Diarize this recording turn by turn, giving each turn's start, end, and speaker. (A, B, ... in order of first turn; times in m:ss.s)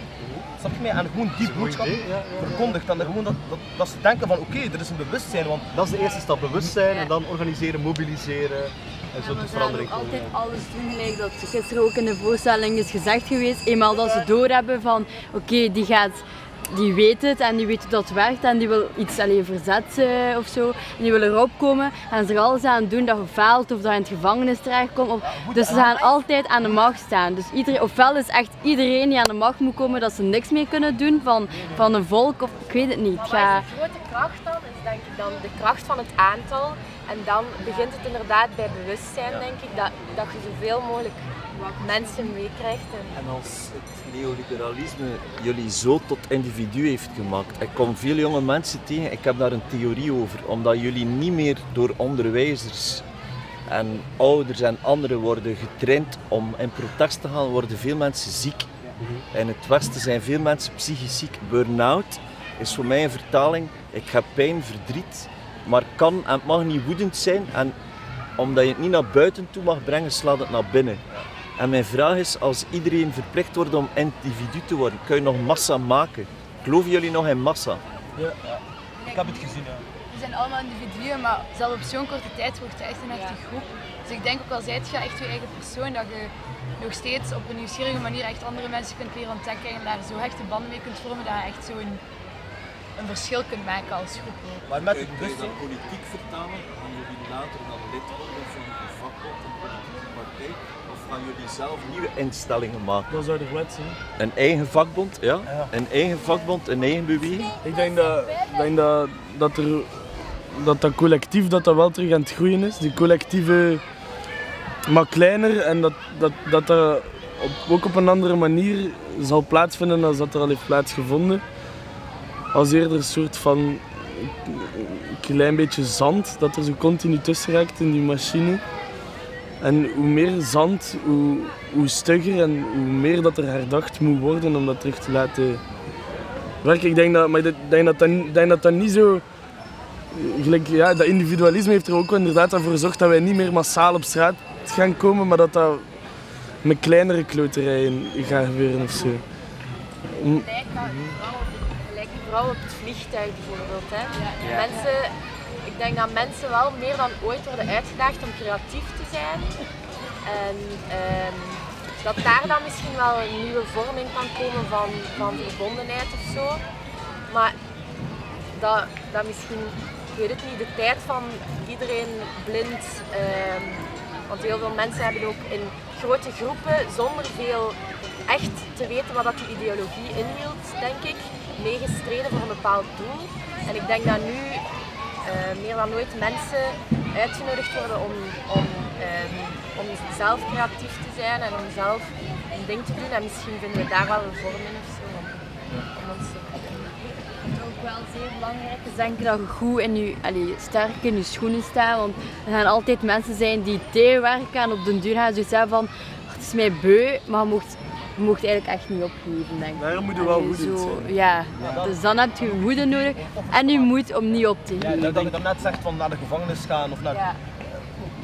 0:00.2-0:00.4 A
0:00.6-0:05.7 B
0:01.4-0:03.1 A
0:05.7-0:10.4 A
0:09.2-0:33.7 C
0:25.2-0:26.2 B
0:33.1-0:43.1 D
0:41.6-0:42.3 C
0:43.1-0:53.0 E
0:53.7-0:58.7 E
0:59.3-1:07.8 E
1:08.4-1:11.0 E
1:11.6-1:17.8 E
1:18.2-1:19.9 B
1:19.0-1:19.5 F
1:20.1-1:32.0 F
1:33.0-1:34.7 F
1:34.7-1:35.6 B
1:34.8-1:43.2 E
1:43.1-1:44.0 G
1:44.2-1:47.5 E
1:47.6-1:53.8 G
1:54.9-2:01.4 G
2:02.5-2:08.6 G
2:09.6-2:15.6 G
2:16.6-2:19.2 G
2:20.1-2:25.9 G
2:26.6-2:29.2 G
2:30.2-2:30.5 G
2:30.2-2:39.6 D
2:34.2-2:34.5 F
2:40.2-2:46.6 D
2:47.3-2:47.6 D
2:48.5-3:04.6 D
3:05.2-3:17.1 D
3:17.5-3:35.3 C
3:29.8-3:34.1 B
3:34.8-3:37.2 B
3:37.1-3:37.4 C